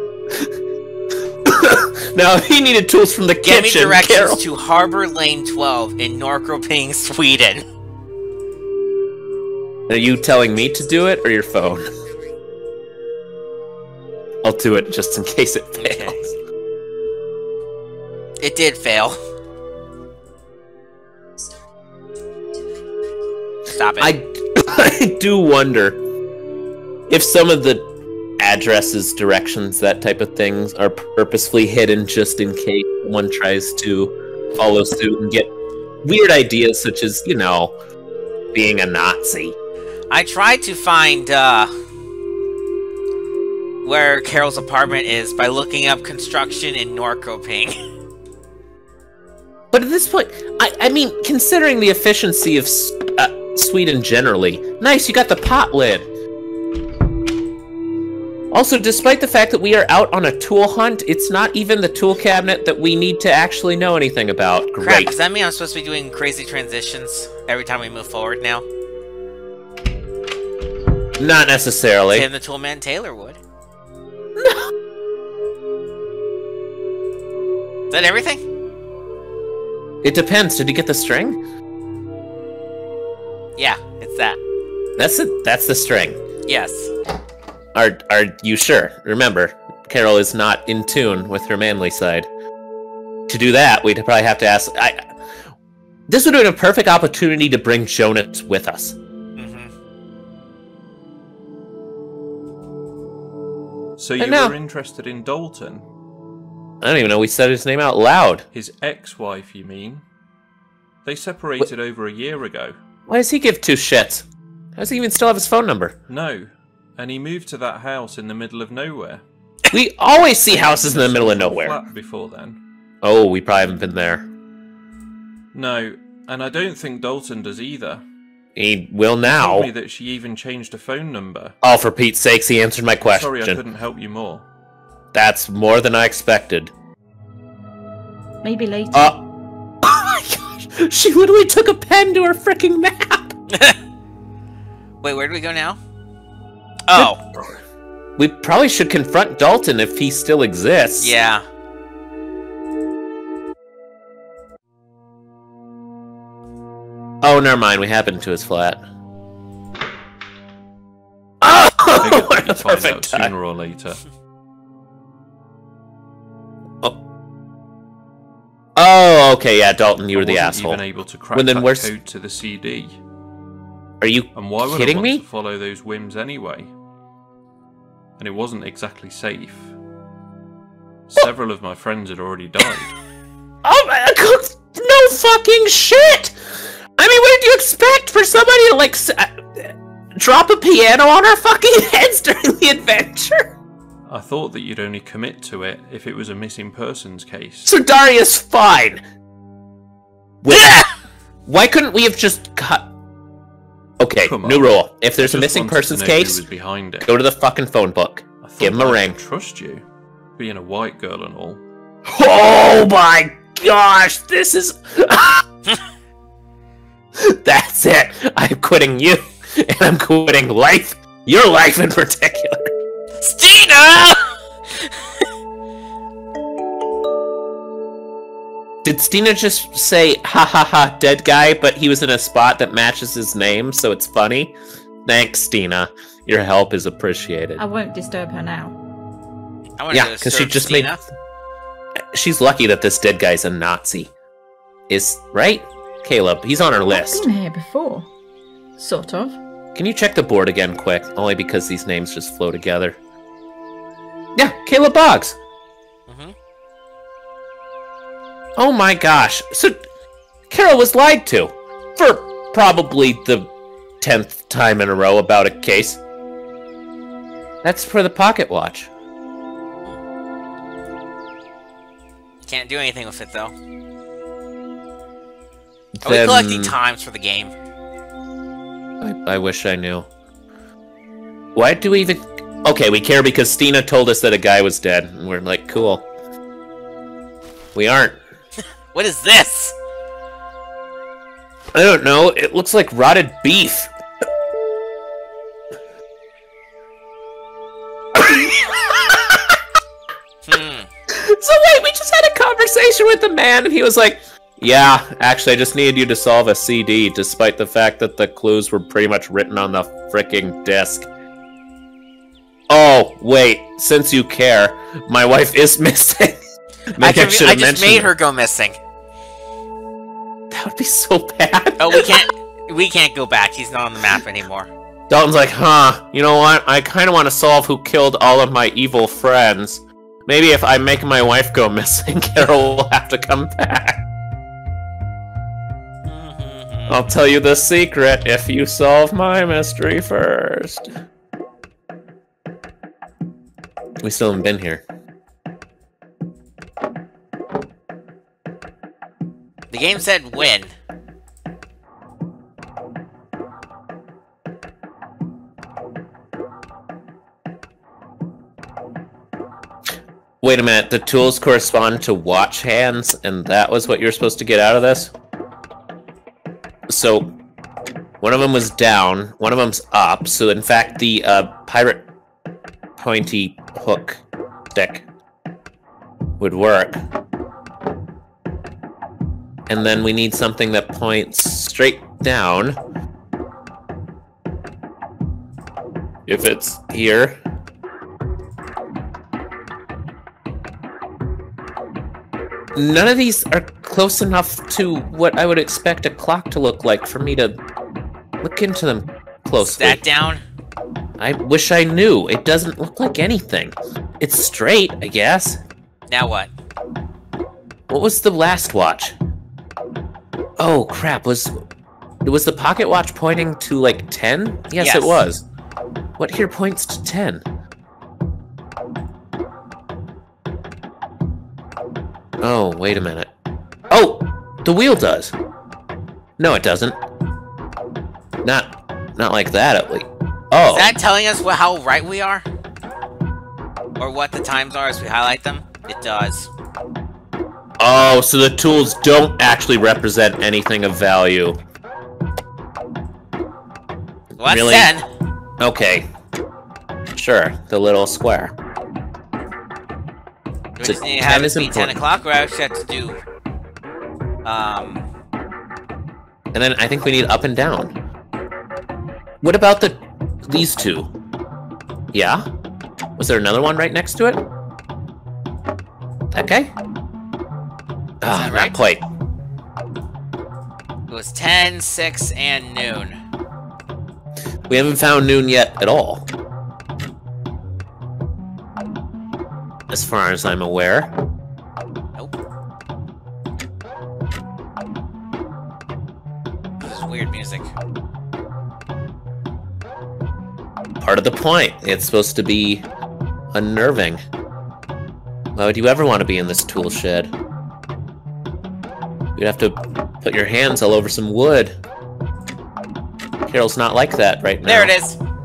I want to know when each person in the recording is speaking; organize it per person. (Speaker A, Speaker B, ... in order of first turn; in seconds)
Speaker A: 1.5-4.4, 9.9-11.9, 14.4-16.4, 24.0-26.0, 27.1-27.9, 28.4-35.5, 36.0-37.8, 38.5-39.6, 49.7-56.1, 58.5-65.2, 71.2-72.3, 74.4-74.7, 80.0-81.4, 85.0-86.2, 87.7-92.3, 93.3-95.1, 96.1-99.0, 104.2-104.5, 106.8-108.4, 113.1-114.2, 114.8-116.0, 119.7-121.8, 123.0-124.3, 128.6-129.7, 131.6-133.6, 135.1-136.7, 138.9-139.2, 139.8-143.3, 148.2-151.1, 157.2-158.8, 161.4-163.3, 168.8-171.9, 174.0-175.2, 183.6-186.4, 187.0-193.5, 197.6-199.0, 200.4-200.8, 201.5-202.9, 204.0-206.4, 207.0-209.2, 212.1-215.4, 217.2-222.7, 228.8-234.5, 235.1-237.6, 239.9-241.0, 242.1-244.1, 244.9-247.2, 249.7-253.0, 254.3-255.4, 258.6-259.8, 260.5-266.0, 267.6-268.9, 276.0-276.8, 279.0-280.1, 281.5-286.0, 287.7-288.2, 291.7-293.9, 298.1-299.5, 301.1-311.1, 312.7-318.1, 320.5-322.2, 325.1-334.0, 336.9-340.9, 344.0-344.8, 360.4-365.1, 366.9-367.3, 368.2-372.1, 373.0-374.2, 374.7-375.1, 376.4-377.0, 379.7-382.8, 386.3-387.4, 392.7-397.6, 398.4-400.0, 401.2-405.6, 407.9-409.1, 410.6-411.6, 412.2-415.4, 416.2-417.4, 422.4-423.3, 423.9-425.3, 426.4-427.0, 428.4-431.0, 437.8-441.6, 444.4-444.9, 445.6-446.1, 447.1-448.5, 450.8-452.0, 456.5-457.9, 459.4-461.1, 462.1-462.4, 463.2-464.4, 466.3-466.7, 468.2-469.0, 474.7-476.2, 479.9-481.1, 491.0-492.8, 493.5-494.2, 495.5-497.3, 499.4-501.7, 503.5-504.9
Speaker B: 3.4-7.6, 15.8-16.2, 18.4-19.2, 23.7-24.2, 40.1-41.7, 43.8-47.7, 64.8-68.7, 72.1-73.4, 77.9-78.4, 83.6-84.4, 86.5-86.9, 99.4-99.7, 145.0-145.8, 146.9-147.2, 151.0-151.4, 200.5-200.9, 223.2-224.2, 239.8-241.0, 256.1-256.3, 272.4-273.5, 276.0-277.5, 288.9-289.7, 300.4-300.9, 317.0-318.8, 321.8-324.7, 336.1-337.0, 349.7-350.7, 399.6-400.4, 406.1-406.5, 414.8-415.2, 430.6-432.4, 434.0-436.5, 444.4-445.1, 450.7-453.2, 454.4-455.1, 468.3-468.8, 471.1-473.2, 486.8-487.7, 504.6-505.2
Speaker C: 104.0-105.8, 108.5-110.0, 111.0-112.8, 116.1-119.2, 120.5-122.6, 125.5-128.0, 129.2-131.5, 133.0-134.5, 161.9-164.1, 170.1-173.0, 174.3-176.7, 178.2-179.7, 181.1-182.9, 194.1-197.7, 204.2-207.1, 208.4-209.8, 210.3-211.6
Speaker D: 138.4-139.1, 237.6-238.8, 246.9-248.1, 248.8-249.4